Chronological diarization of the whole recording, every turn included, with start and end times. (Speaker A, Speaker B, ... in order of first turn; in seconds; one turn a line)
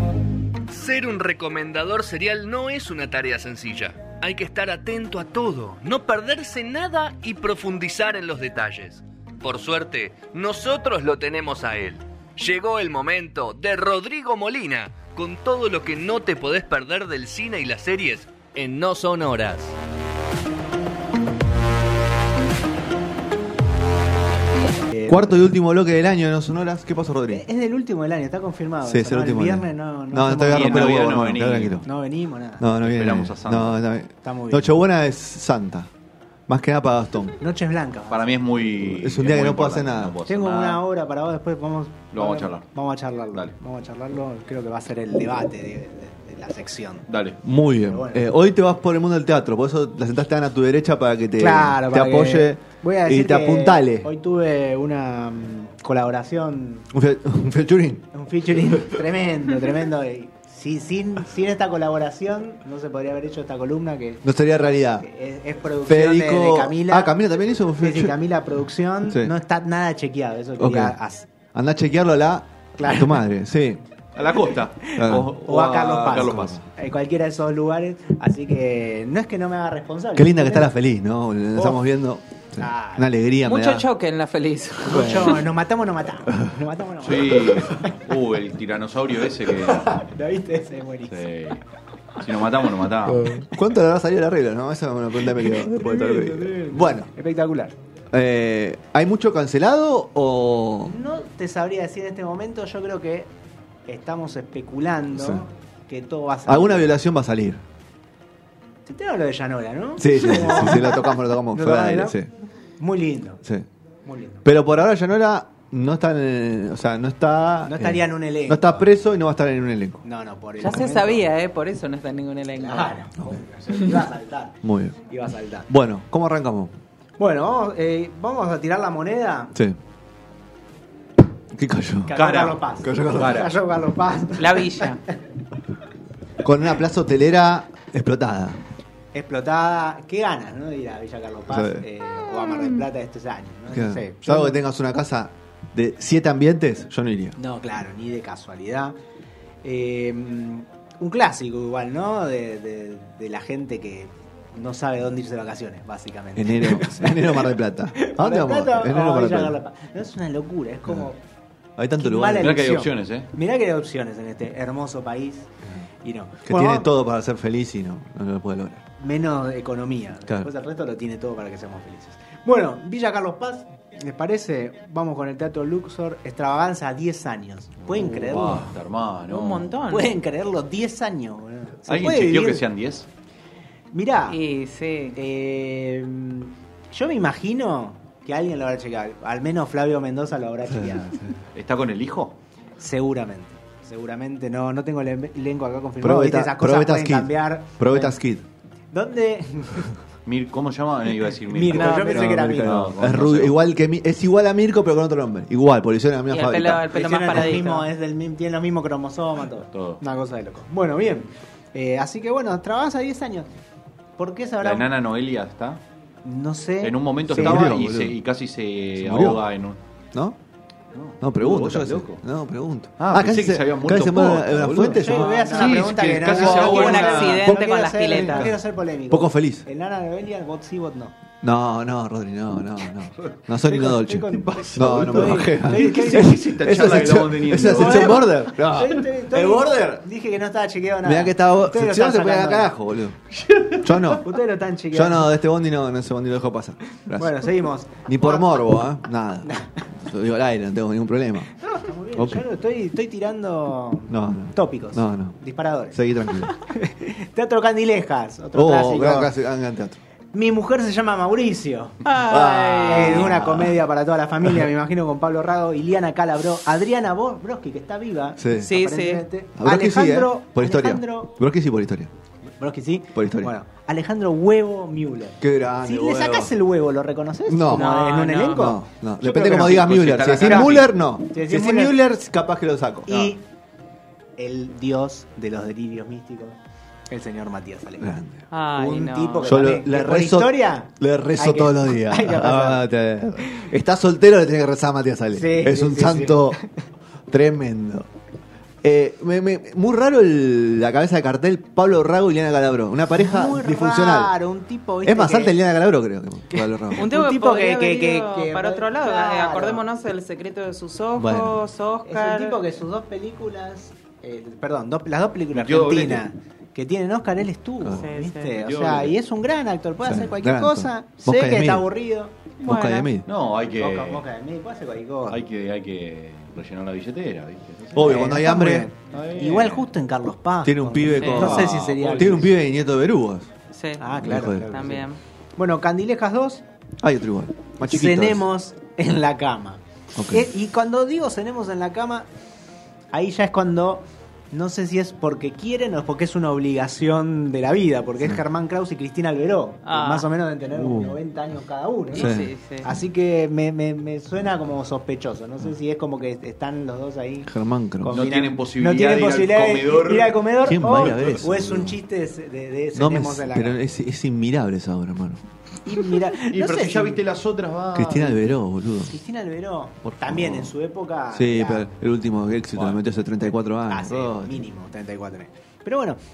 Speaker A: 0.7-19.8
Speaker B: 24.9-25.4
Speaker C: 25.1-27.4
Speaker B: 27.3-31.2
Speaker C: 28.8-31.9
Speaker D: 30.5-31.8
Speaker B: 31.8-32.6
Speaker C: 32.6-35.9
Speaker D: 32.8-33.8
Speaker B: 34.2-34.7
Speaker C: 36.5-37.4
Speaker B: 37.4-38.3
Speaker D: 38.1-40.8
Speaker C: 38.9-40.1
Speaker B: 40.2-47.0
Speaker D: 42.1-42.7
Speaker D: 47.1-47.4
Speaker C: 47.4-54.1
Speaker B: 47.8-48.3
Speaker B: 51.4-56.9
Speaker C: 56.9-58.1
Speaker B: 58.1-64.2
Speaker C: 64.2-65.0
Speaker B: 64.9-67.2
Speaker C: 65.8-68.1
Speaker B: 67.8-71.3
Speaker C: 70.6-70.9
Speaker C: 71.5-73.8
Speaker B: 72.8-73.2
Speaker D: 74.1-76.6
Speaker B: 74.8-80.7
Speaker C: 75.0-75.3
Speaker C: 76.0-76.6
Speaker C: 80.1-83.9
Speaker B: 81.5-81.8
Speaker B: 82.6-83.0
Speaker E: 83.4-85.4
Speaker B: 84.8-87.9
Speaker C: 84.9-85.4
Speaker D: 87.0-90.0
Speaker B: 89.4-91.2
Speaker D: 91.1-91.6
Speaker D: 92.2-93.3
Speaker C: 93.2-97.1
Speaker B: 95.3-97.7
Speaker C: 98.1-100.9
Speaker B: 100.8-103.3
Speaker B: 103.9-106.9
Speaker C: 105.2-105.4
Speaker C: 106.5-107.6
Speaker B: 108.8-112.2
Speaker C: 110.0-112.3
Speaker B: 112.8-113.4
Speaker B: 114.0-114.4
Speaker C: 114.4-120.0
Speaker B: 117.7-118.9
Speaker B: 120.0-121.3
Speaker E: 120.6-123.0
Speaker B: 122.6-124.5
Speaker C: 124.6-125.0
Speaker B: 125.1-125.7
Speaker C: 125.7-126.7
Speaker B: 127.2-129.6
Speaker C: 131.5-132.2
Speaker B: 132.1-135.0
Speaker D: 132.2-133.5
Speaker C: 132.8-133.4
Speaker E: 134.4-135.0
Speaker C: 136.4-138.6
Speaker B: 139.1-144.6
Speaker C: 141.5-141.8
Speaker C: 143.7-147.3
Speaker B: 147.3-148.9
Speaker B: 149.6-161.2
Speaker C: 156.3-159.6
Speaker C: 161.8-162.6
Speaker B: 162.0-165.5
Speaker D: 162.4-163.3
Speaker B: 166.0-166.9
Speaker C: 166.4-168.8
Speaker B: 169.0-178.7
Speaker D: 177.9-179.7
Speaker E: 179.3-180.2
Speaker B: 179.9-182.6
Speaker D: 181.9-183.1
Speaker B: 183.9-184.4
Speaker E: 184.3-185.2
Speaker B: 185.2-191.2
Speaker D: 191.5-192.3
Speaker B: 192.8-198.2
Speaker C: 196.0-198.4
Speaker B: 198.9-199.9
Speaker D: 200.2-203.6
Speaker B: 201.5-202.9
Speaker E: 201.7-202.2
Speaker C: 201.9-207.6
Speaker E: 206.3-207.9
Speaker B: 206.9-213.5
Speaker D: 209.7-210.0
Speaker B: 214.2-214.9
Speaker D: 214.6-215.8
Speaker B: 216.2-217.7
Speaker D: 216.8-219.8
Speaker C: 217.3-218.2
Speaker C: 219.0-219.4
Speaker D: 220.9-222.2
Speaker C: 221.2-226.6
Speaker D: 223.0-227.5
Speaker B: 224.9-231.1
Speaker E: 226.4-228.5
Speaker C: 228.1-228.6
Speaker C: 229.1-229.7
Speaker C: 231.4-240.0
Speaker B: 233.6-236.4
Speaker D: 234.4-238.2
Speaker B: 237.6-242.7
Speaker C: 241.0-243.2
Speaker D: 243.3-244.2
Speaker C: 243.8-244.2
Speaker B: 244.2-245.3
Speaker C: 244.9-247.5
Speaker B: 247.2-248.7
Speaker C: 248.0-251.5
Speaker B: 249.4-249.8
Speaker B: 251.5-259.3
Speaker C: 252.1-252.4
Speaker C: 254.1-255.4
Speaker C: 255.9-256.5
Speaker C: 258.5-260.0
Speaker B: 260.3-262.0
Speaker E: 262.0-263.3
Speaker C: 262.3-263.8
Speaker B: 262.9-271.3
Speaker C: 268.4-268.7
Speaker E: 268.6-269.2
Speaker C: 269.6-272.1
Speaker B: 272.6-282.0
Speaker C: 273.1-273.5
Speaker C: 275.4-276.5
Speaker C: 277.5-277.9
Speaker E: 277.7-278.7
Speaker C: 278.5-283.3
Speaker D: 279.7-280.9
Speaker B: 283.1-283.4
Speaker B: 284.4-286.6
Speaker B: 287.1-288.1
Speaker C: 288.0-288.4
Speaker E: 288.5-289.6
Speaker B: 288.7-292.8
Speaker C: 289.4-296.6
Speaker B: 295.3-296.6
Speaker C: 297.3-298.1
Speaker C: 298.8-304.3
Speaker B: 303.2-305.6
Speaker C: 305.0-307.1
Speaker B: 306.5-309.8
Speaker E: 307.0-312.6
Speaker C: 311.2-311.6
Speaker B: 312.0-322.4
Speaker D: 315.5-316.3
Speaker E: 317.9-318.5
Speaker D: 318.6-319.2
Speaker C: 320.0-321.9
Speaker E: 322.6-323.1
Speaker C: 322.6-323.3
Speaker D: 323.2-324.2
Speaker B: 323.8-325.4
Speaker D: 325.3-328.4
Speaker C: 327.9-328.9
Speaker B: 327.9-332.5
Speaker D: 329.1-329.9
Speaker C: 330.6-333.5
Speaker E: 331.2-331.6
Speaker D: 331.3-332.4
Speaker E: 333.7-335.2
Speaker B: 334.0-335.0
Speaker C: 334.2-334.7
Speaker B: 335.6-336.6
Speaker C: 337.0-338.4
Speaker B: 337.8-342.3
Speaker C: 340.1-340.5
Speaker B: 343.1-357.5
Speaker E: 349.8-350.3
Speaker C: 350.7-351.2
Speaker E: 352.1-352.9
Speaker C: 352.1-352.5
Speaker C: 357.4-358.2
Speaker B: 358.0-363.8
Speaker D: 358.1-361.4
Speaker C: 360.6-362.0
Speaker C: 362.9-365.4
Speaker B: 365.8-367.2
Speaker D: 366.5-368.4
Speaker C: 367.9-369.1
Speaker B: 369.0-371.9
Speaker C: 370.0-370.7
Speaker C: 371.3-374.6
Speaker B: 373.4-376.2